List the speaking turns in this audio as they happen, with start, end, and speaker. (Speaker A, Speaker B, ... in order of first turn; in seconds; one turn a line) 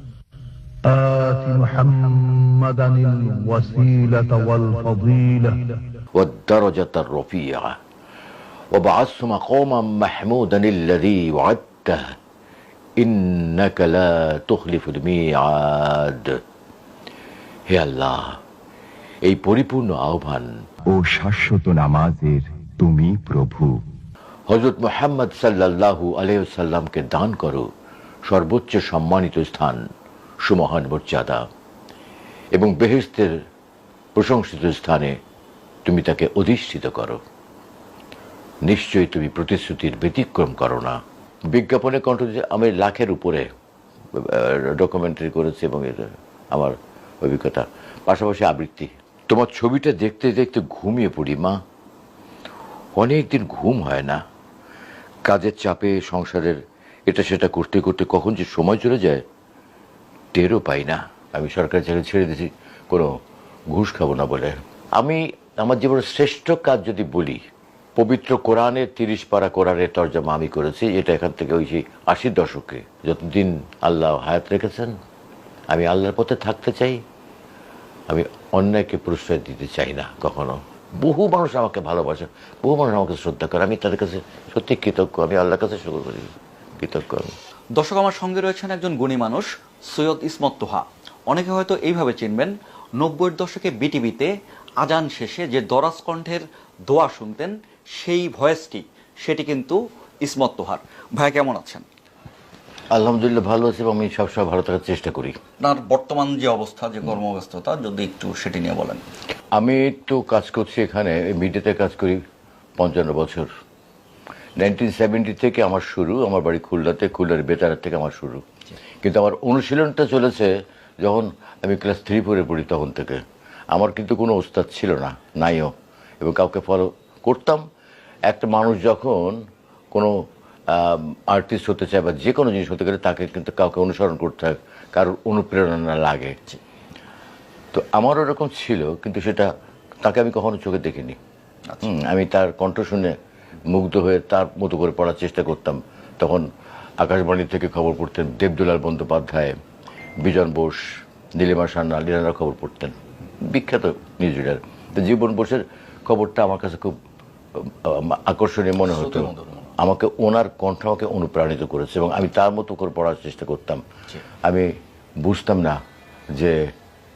Speaker A: 0.8-5.8
Speaker B: 6.2-7.8
Speaker B: 8.7-12.2
Speaker B: 13.0-16.4
Speaker B: 17.7-18.4
Speaker B: 19.2-20.5
Speaker C: 20.9-23.8
Speaker B: 24.5-27.7
Speaker B: 28.3-29.8
Speaker B: 30.4-31.4
Speaker B: 32.5-33.4
Speaker B: 34.2-35.1
Speaker B: 35.9-37.2
Speaker B: 38.6-41.0
Speaker B: 41.5-43.5
Speaker B: 44.1-51.6
Speaker B: 53.0-54.2
Speaker B: 55.3-59.2
Speaker B: 60.3-63.1
Speaker B: 63.7-67.4
Speaker B: 68.0-74.9
Speaker B: 75.7-77.0
Speaker B: 78.1-87.3
Speaker D: 87.8-101.9
Speaker B: 102.9-105.4
Speaker D: 105.6-109.1
Speaker B: 109.5-112.2
Speaker B: 112.8-113.5
Speaker B: 114.6-118.4
Speaker B: 119.0-123.2
Speaker B: 123.7-127.6
Speaker B: 128.3-129.4
Speaker B: 130.7-136.4
Speaker B: 137.7-139.5
Speaker B: 140.0-141.2
Speaker B: 141.8-143.2
Speaker B: 143.7-146.5
Speaker B: 147.0-149.6
Speaker B: 150.2-156.9
Speaker B: 157.6-163.8
Speaker D: 159.2-159.7
Speaker B: 164.4-165.8
Speaker B: 166.3-166.7